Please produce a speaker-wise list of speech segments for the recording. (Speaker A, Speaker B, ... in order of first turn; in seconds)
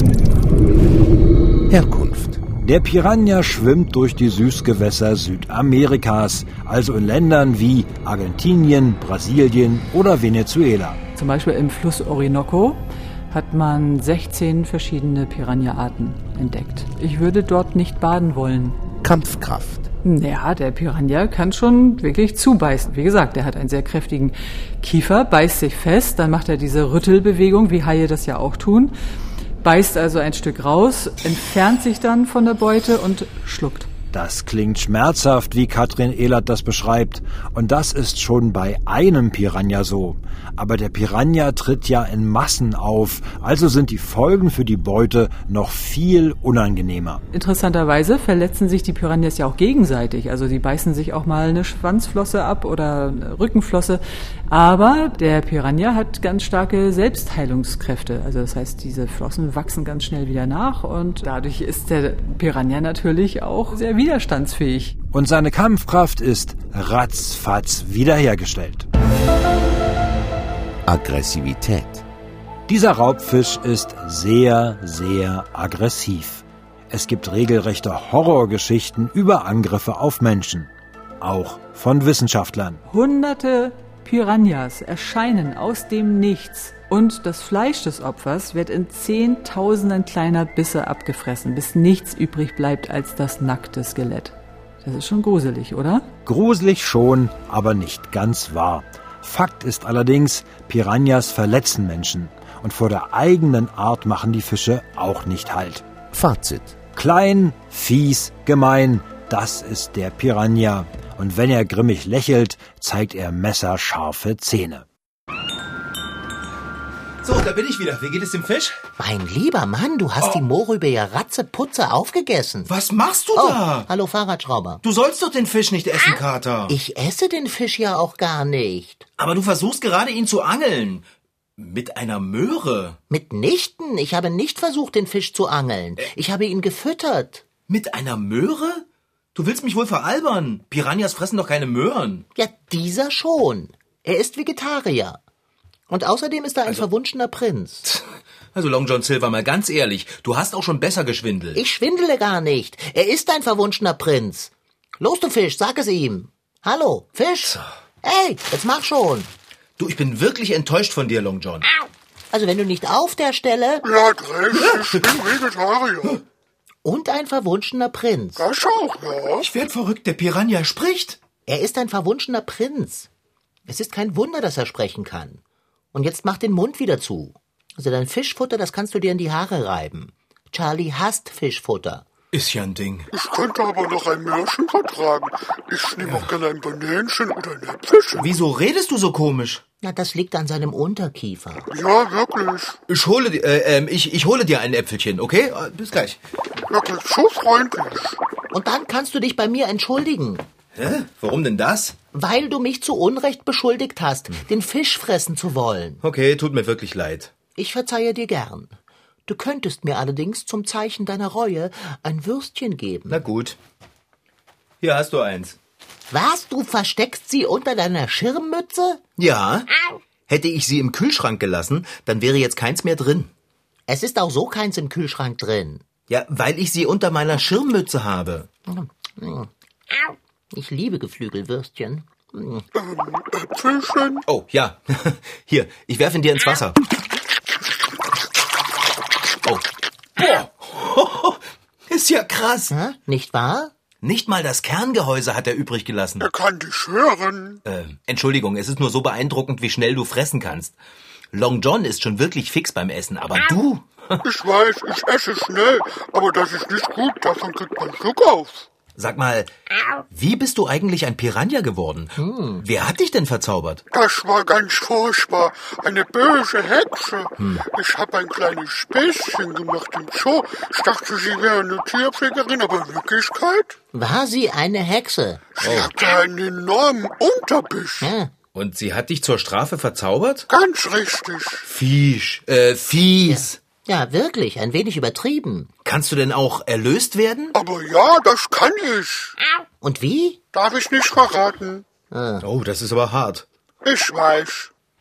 Speaker A: 1.7-2.4, 19.0-19.9, 70.9-72.0, 106.1-106.8
Speaker B: 2.6-11.0, 34.1-47.2, 65.1-68.9, 72.7-82.8, 96.3-105.9, 106.9-114.8
Speaker C: 11.2-18.8, 20.0-28.9, 29.6-33.9, 47.3-65.0, 82.9-96.1
Speaker D: 117.2-118.8, 122.7-123.9, 124.8-126.8, 129.2-131.1, 131.6-133.0, 137.7-142.3, 147.8-151.6, 159.8-161.7, 164.5-165.1, 169.4-171.2, 182.3-183.1, 186.0-186.3, 188.2-189.6, 192.9-196.2, 200.8-202.0, 206.0-207.3, 213.1-213.6, 214.8-215.6, 219.2-219.7, 220.3-223.3, 226.1-228.5, 234.3-236.8, 239.4-242.7, 244.0-246.3, 247.7-250.8, 251.3-254.2, 259.0-259.5, 260.1-263.8, 267.4-267.6, 275.6-275.9, 278.6-280.5, 281.6-283.6, 285.8-287.6, 292.4-293.5
Speaker E: 119.0-122.7, 123.4-124.8, 126.7-129.1, 133.1-137.4, 142.3-145.2, 145.9-147.9, 151.6-159.3, 162.3-163.9, 166.8-168.5, 171.5-173.1, 173.7-175.4, 175.9-182.1, 189.8-191.7, 198.5-200.4, 202.1-206.0, 207.6-208.8, 209.3-213.2, 216.1-219.0, 223.9-225.8, 228.7-229.5, 230.5-232.7, 242.7-243.7, 262.2-262.6, 273.9-275.8, 278.0-278.3, 283.3-285.7, 289.8-290.4, 292.1-292.5
Speaker F: 163.8-166.2, 168.4-169.5, 183.1-188.3, 191.7-192.8, 196.7-198.2, 232.8-234.2, 246.2-247.6, 254.2-258.7, 263.9-273.8, 275.6-278.1, 280.5-281.7, 287.5-289.4, 290.5-291.9, 293.8-294.7